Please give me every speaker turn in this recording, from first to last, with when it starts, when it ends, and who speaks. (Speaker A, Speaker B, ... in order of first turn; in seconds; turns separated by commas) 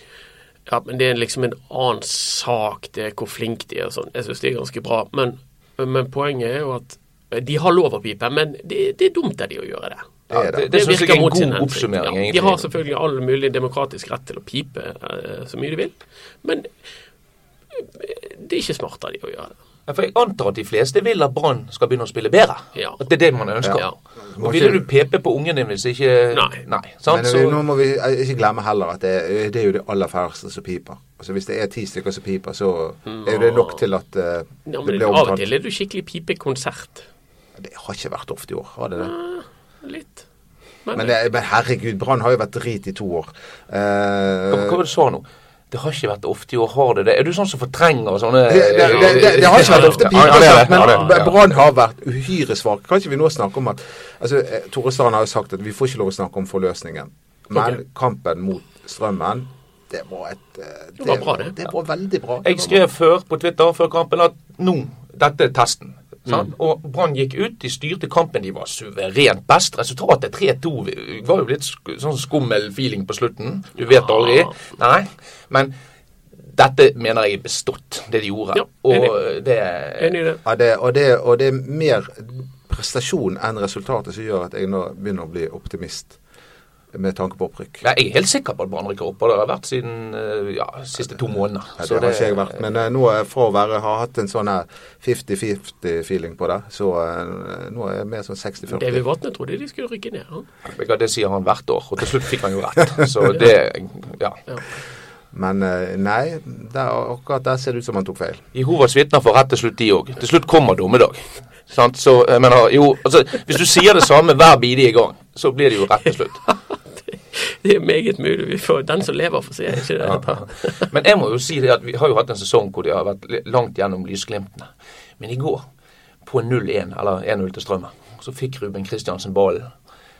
Speaker A: 0.7-10.1, Speaker B: 10.3-12.7, Speaker C: 10.3-10.7, Speaker A: 10.7-16.7, Speaker A: 17.7-19.5, Speaker B: 19.9-27.6, Speaker C: 23.6-24.9, Speaker A: 26.3-26.6, Speaker C: 27.1-35.5, Speaker A: 33.0-33.8, Speaker A: 34.6-37.1, Speaker C: 37.6-39.1, Speaker A: 39.0-40.2, Speaker A: 40.9-41.1, Speaker C: 40.9-44.8, Speaker B: 44.5-51.4, Speaker C: 48.5-62.8, Speaker A: 48.9-51.1, Speaker A: 61.0-61.6, Speaker B: 62.4-75.7, Speaker A: 73.9-74.5, Speaker B: 76.5-80.2, Speaker A: 78.5-79.1, Speaker A: 80.0-80.4, Speaker C: 80.4-86.2, Speaker C: 86.9-87.8, Speaker B: 87.8-92.5, Speaker C: 91.8-99.0, Speaker A: 98.7-100.5, Speaker B: 100.7-104.4, Speaker C: 105.3-108.4, Speaker B: 108.5-116.4, Speaker A: 116.5-120.9, Speaker B: 120.0-125.6, Speaker B: 126.2-129.7